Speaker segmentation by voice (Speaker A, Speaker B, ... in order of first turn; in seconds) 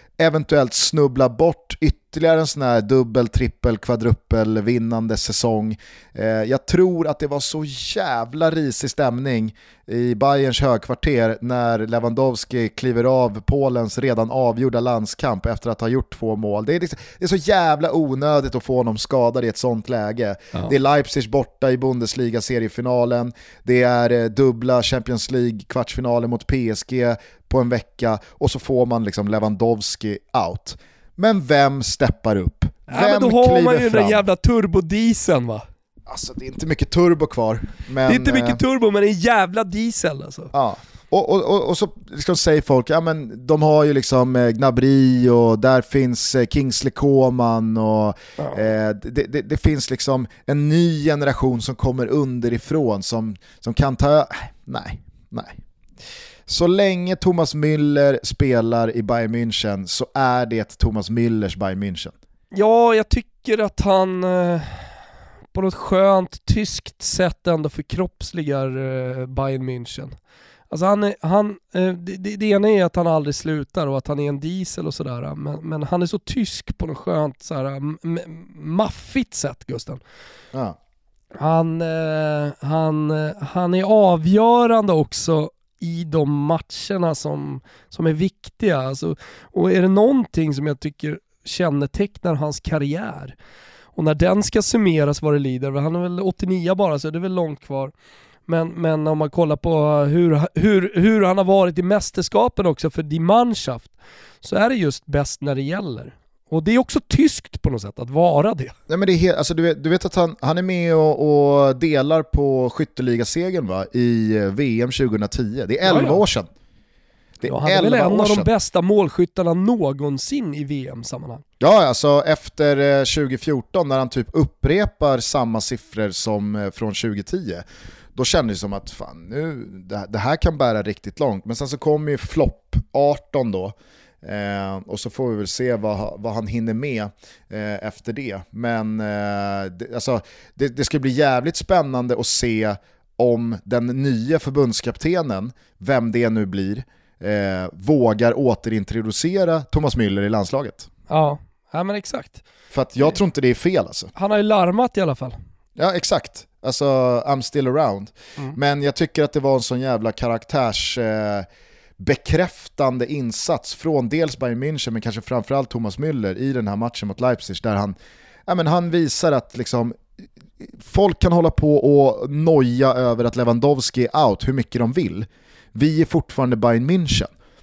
Speaker A: 0.2-34.2, 36.1-38.6, 40.5-55.6, 56.5-62.1, 108.9-116.5, 117.4-118.5, 121.6-127.6, 128.1-150.9, 152.7-154.1, 155.8-161.5, 162.0-167.9, 168.5-170.0, 170.6-177.3
Speaker B: 32.9-35.6, 38.0-40.5, 62.5-64.9, 65.5-70.1, 70.7-80.0, 81.3-93.3, 94.0-97.9, 98.5-108.7, 115.8-116.2, 117.4-121.4, 151.1-152.4, 154.1-155.3